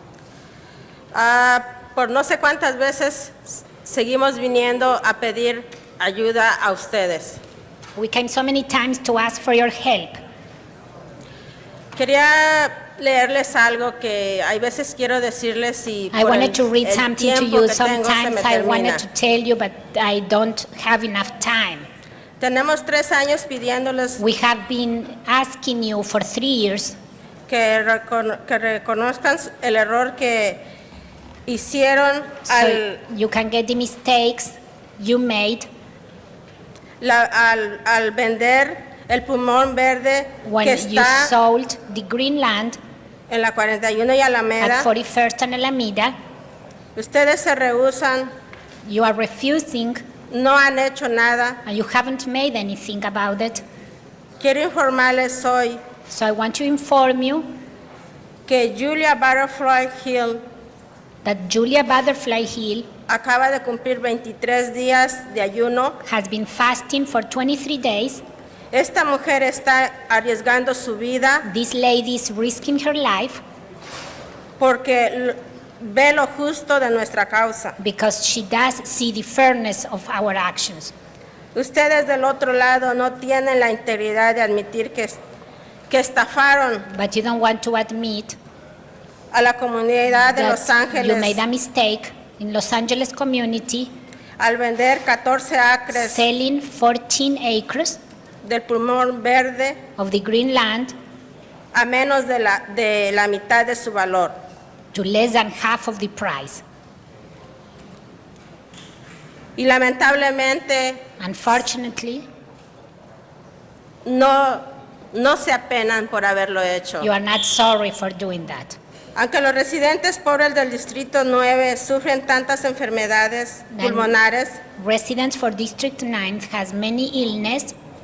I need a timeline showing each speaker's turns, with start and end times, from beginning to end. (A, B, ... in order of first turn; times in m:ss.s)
0:01.1-0:07.4 A
0:08.0-0:10.2 B
0:11.9-0:19.0 A
0:16.1-0:21.9 B
0:22.4-0:24.2 A
0:24.2-0:27.0 B
0:27.5-0:30.6 A
0:31.4-0:33.0 A
0:32.4-0:35.6 B
0:37.0-0:41.3 A
0:40.4-0:42.8 B
0:43.3-0:44.9 A
0:44.6-0:46.1 B
0:47.0-0:48.3 A
0:48.8-0:50.0 B
0:50.3-0:51.6 A
0:51.6-0:53.6 B
0:54.4-0:55.8 A
0:56.1-0:57.4 B
0:58.5-1:00.4 A
1:01.2-1:02.9 B
1:03.1-1:06.0 A
1:06.0-1:08.2 B
1:08.7-1:11.5 A
1:11.4-1:13.4 B
1:14.6-1:17.8 A
1:17.8-1:20.9 B
1:21.5-1:25.2 A
1:25.9-1:26.9 A
1:26.9-1:28.4 B
1:29.3-1:31.4 A
1:30.2-1:33.9 B
1:34.4-1:36.2 A
1:35.9-1:38.0 B
1:38.4-1:39.8 A
1:40.0-1:40.9 B
1:41.7-1:44.3 A
1:44.9-1:46.6 B
1:49.6-1:51.0 A
1:51.2-1:52.2 B
1:54.0-1:57.1 A
1:57.0-1:58.8 B
1:59.1-2:04.6 A
2:03.7-2:04.2 B
2:04.7-2:07.7 B